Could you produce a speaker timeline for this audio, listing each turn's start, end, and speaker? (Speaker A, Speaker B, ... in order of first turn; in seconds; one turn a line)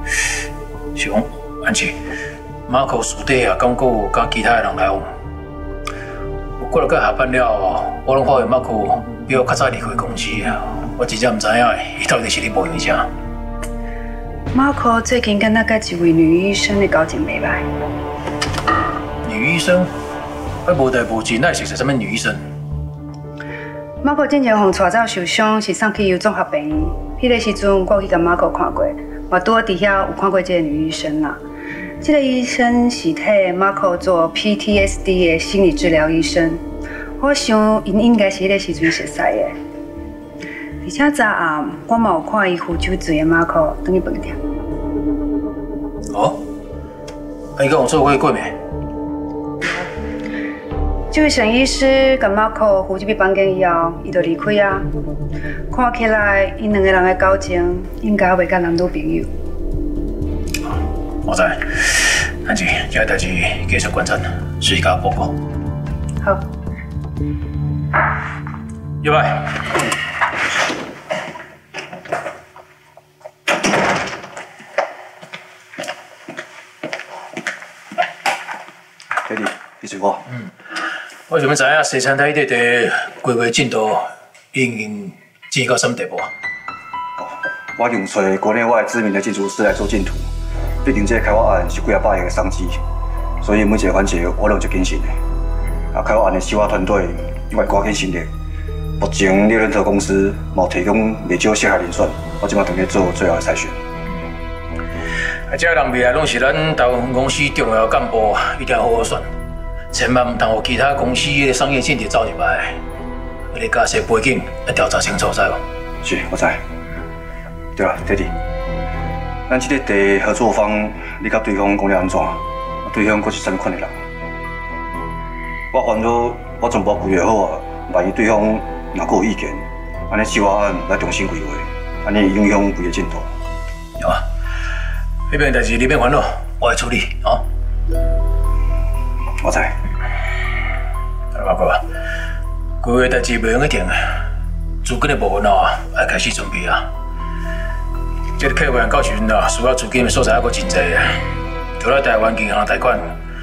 Speaker A: 0.9-2.0
Speaker A: 2.7-5.1
Speaker A: 6.6-13.1
Speaker B: 14.5-17.7
Speaker A: 19.2-19.9
Speaker A: 20.6-22.4
Speaker B: 24.0-31.4
Speaker B: 32.0-36.6
Speaker B: 37.2-39.6
Speaker B: 40.8-44.4
Speaker A: 46.1-46.4
Speaker A: 47.6-48.6
Speaker B: 51.1-54.9
Speaker B: 55.7-59.3
Speaker A: 61.2-65.3
Speaker A: 69.0-69.6
Speaker C: 79.2-80.2
Speaker A: 81.3-86.3
Speaker C: 87.2-90.3
Speaker C: 90.8-92.8
Speaker C: 93.4-95.2
Speaker C: 95.9-98.3
Speaker C: 99.0-103.8
Speaker A: 105.5-109.3
Speaker A: 109.9-112.8
Speaker A: 113.5-115.6
Speaker C: 116.0-116.6
Speaker C: 117.8-118.3
Speaker C: 119.5-124.0
Speaker C: 125.7-133.3
Speaker A: 135.3-137.4
Speaker C: 139.4-139.7
Speaker A: 141.3-141.8
Speaker A: 142.8-144.2
Speaker A: 144.8-146.9
Speaker A: 148.4-151.2
Speaker A: 151.8-153.2